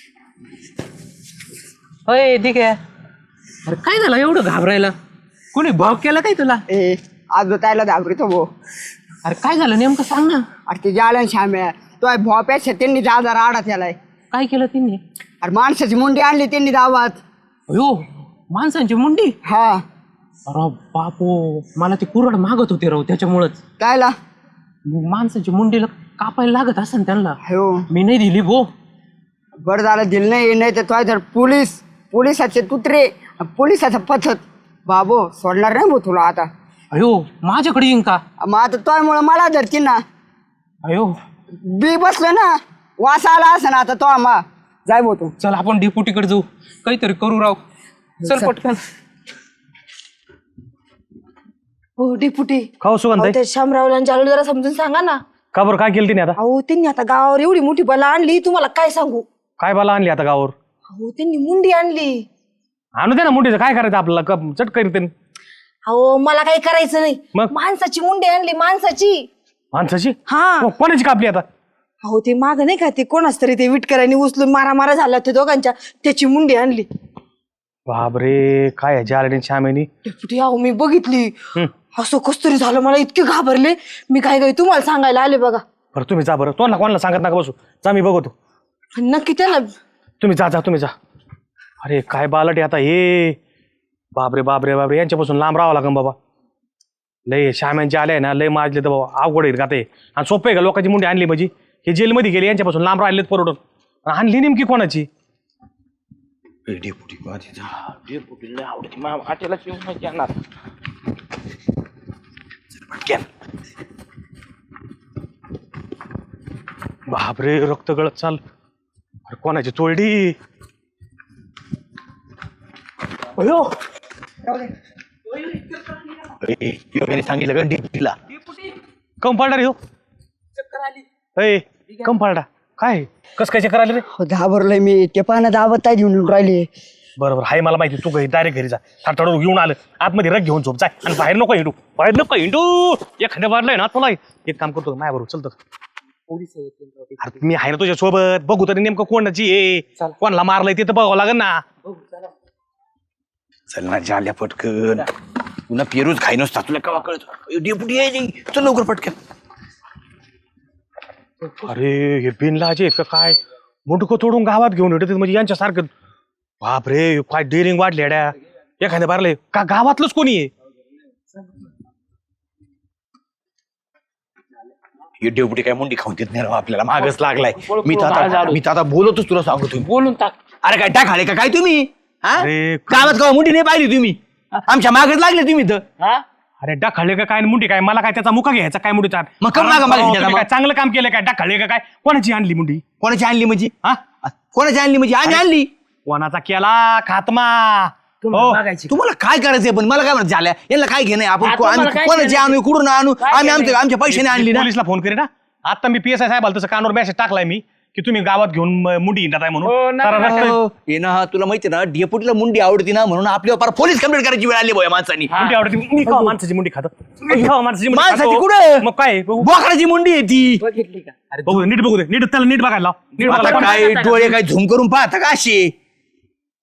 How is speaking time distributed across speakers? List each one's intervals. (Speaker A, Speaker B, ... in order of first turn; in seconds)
Speaker A: 2.1-2.7, 3.7-4.9, 5.5-6.6, 9.2-10.4, 14.3-15.0, 17.7-18.0, 18.5-19.3, 20.5-23.6, 24.9-27.4, 27.9-28.7, 36.9-38.2, 40.9-41.1, 45.4-47.6, 48.2-48.8, 146.3-147.4, 220.8-221.7
Speaker B: 6.7-8.5, 10.7-14.0, 15.4-17.2, 19.4-19.8, 23.8-24.1, 27.4-27.8, 29.6-36.5, 38.4-40.0, 41.6-45.3, 134.1-136.7
Speaker C: 52.0-52.7, 53.3-55.2, 56.4-59.2, 60.9-62.2, 65.8-69.3, 70.3-70.5, 72.0-76.9, 80.1-81.3, 81.9-85.6, 88.9-89.7
Speaker D: 52.8-53.4, 55.5-56.4, 59.6-60.5, 63.0-65.1, 69.7-71.4, 77.9-79.9, 85.9-88.3, 90.2-90.9, 91.8-93.4, 94.1-96.2, 97.3-105.1, 117.1-118.4, 119.3-120.3, 123.4-123.7, 129.2-129.8, 131.3-134.0, 137.2-145.6, 147.2-151.6, 161.6-165.9, 166.6-170.5, 182.4-183.2, 186.6-192.8, 196.1-198.6, 204.1-210.6, 215.4-219.5, 221.5-223.8
Speaker E: 106.7-107.7, 112.8-113.2, 126.4-128.1, 153.7-155.1, 155.7-159.2, 175.2-179.9, 180.6-185.8, 189.4-190.5, 193.0-195.7, 198.9-204.7, 210.2-215.3, 217.3-218.8, 219.4-220.6, 223.2-225.7
Speaker F: 108.0-110.3, 178.0-178.6, 179.9-180.3, 198.2-198.9, 201.4-202.6, 203.2-203.8, 209.6-210.5, 215.3-215.6, 223.2-224.4